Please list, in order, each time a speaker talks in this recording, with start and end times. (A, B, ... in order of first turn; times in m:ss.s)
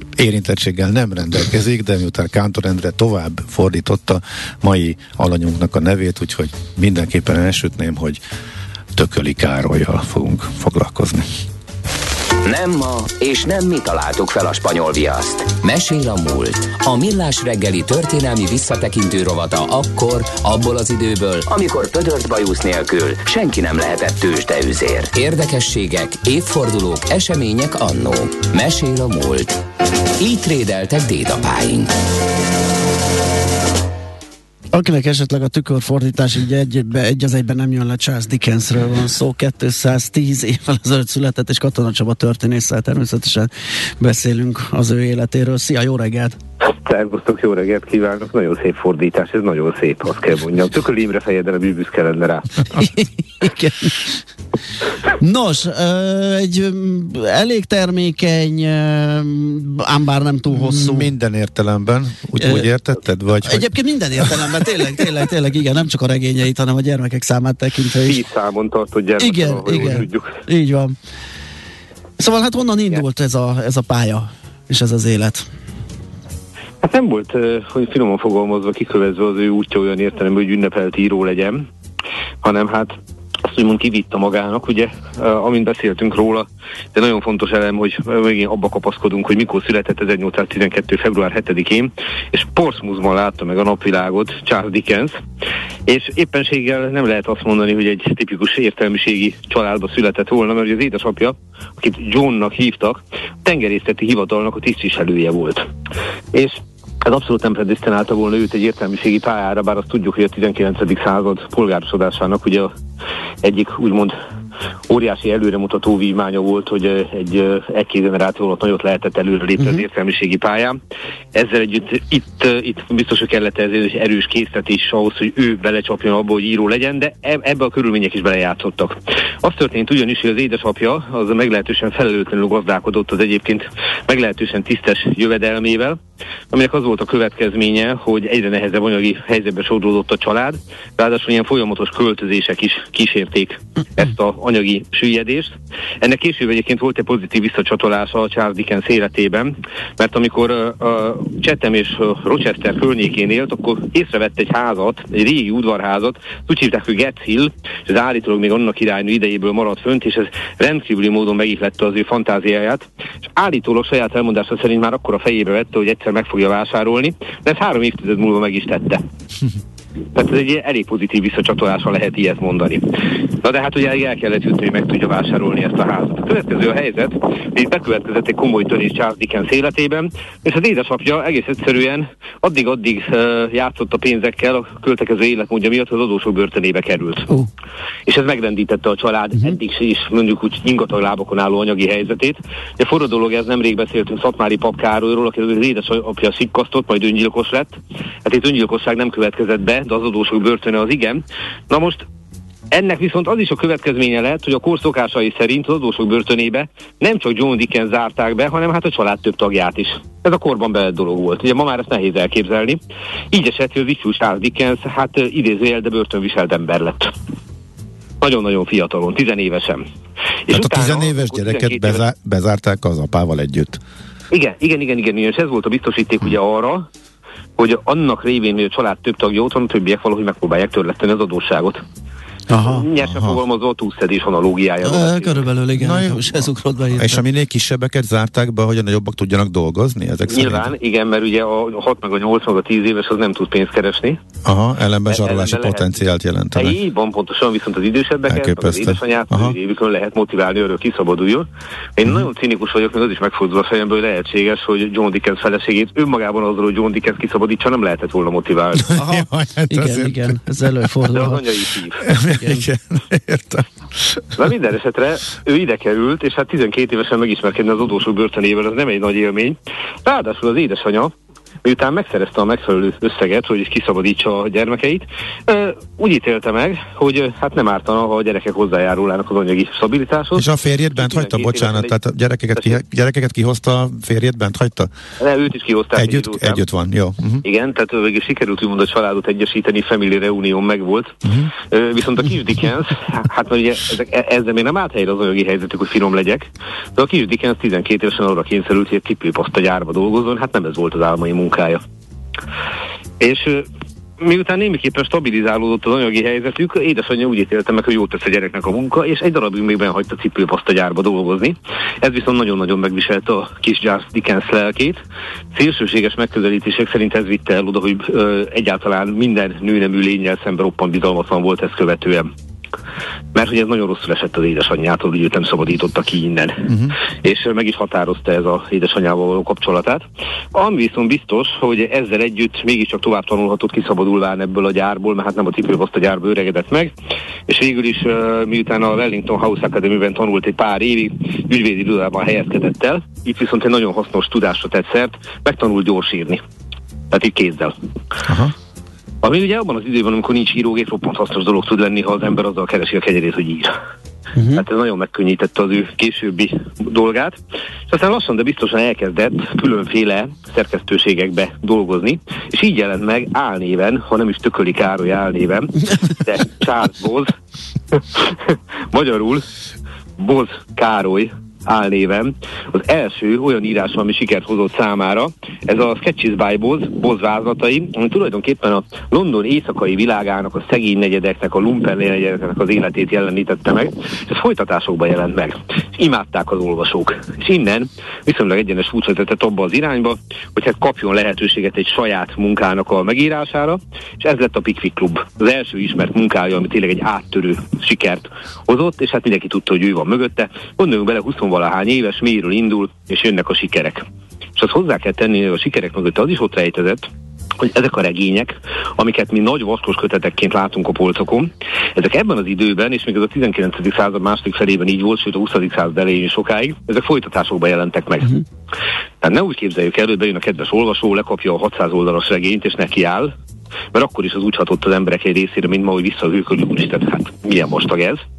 0:00.2-0:08.2 A
0:08.9-0:11.3 A
0:12.4-0:29.6 B
0:30.2-0:31.9 B
0:34.7-0:46.4 C
0:46.8-0:52.7 D
0:52.8-0:54.2 C
0:55.2-1:01.1 C
1:00.5-1:03.7 A
1:02.4-1:02.7 C
1:03.4-1:08.2 C
1:08.0-1:10.4 D
1:09.2-1:11.0 C
1:12.2-1:15.4 C
1:16.8-1:21.7 D
1:22.4-1:35.1 D
1:35.8-1:45.7 D
1:46.3-1:52.7 D
1:53.4-1:54.1 D
1:54.9-2:00.8 D
2:01.3-2:16.0 D
2:16.5-2:49.0 D
2:50.1-2:52.9 D
2:53.4-3:07.3 D
3:08.0-3:22.0 D
3:22.7-3:32.8 D
3:33.3-3:37.1 D
3:38.2-3:39.8 D
3:40.4-3:42.0 D
3:40.5-3:43.8 A
3:44.3-3:46.8 D
3:47.6-3:51.8 D
3:52.5-3:52.8 C
3:52.6-3:55.5 D
3:53.0-3:53.4 A
3:54.8-3:57.2 C
3:55.8-4:00.7 A
4:00.3-4:04.2 D
4:04.4-4:06.8 A
4:05.1-4:05.9 D
4:06.5-4:18.9 D
4:08.3-4:09.6 A
4:18.8-4:20.9 A
4:18.9-4:21.4 C
4:21.1-4:22.0 D
4:22.0-4:24.4 A
4:22.4-4:22.6 C
4:24.4-4:31.1 D
4:31.6-4:41.9 D
4:40.3-4:44.9 A
4:45.2-4:46.6 D
4:46.0-4:47.4 A
4:47.4-5:01.8 D
4:51.2-4:51.5 A
5:03.2-5:03.7 D
5:04.2-5:15.0 D
5:15.5-5:22.3 D
5:23.3-5:30.0 D
5:26.7-5:27.0 A
5:30.5-5:36.9 D
5:37.5-5:46.4 D
5:47.1-5:47.7 D
5:48.2-5:48.5 A
5:49.2-5:53.7 D
5:54.4-5:54.6 C
5:54.5-5:57.4 D
5:57.9-6:07.3 D
6:07.9-6:09.4 D
6:10.2-6:44.0 D
6:44.6-6:47.1 D
6:47.6-6:58.4 D
6:59.2-7:03.3 D
7:03.9-7:08.2 D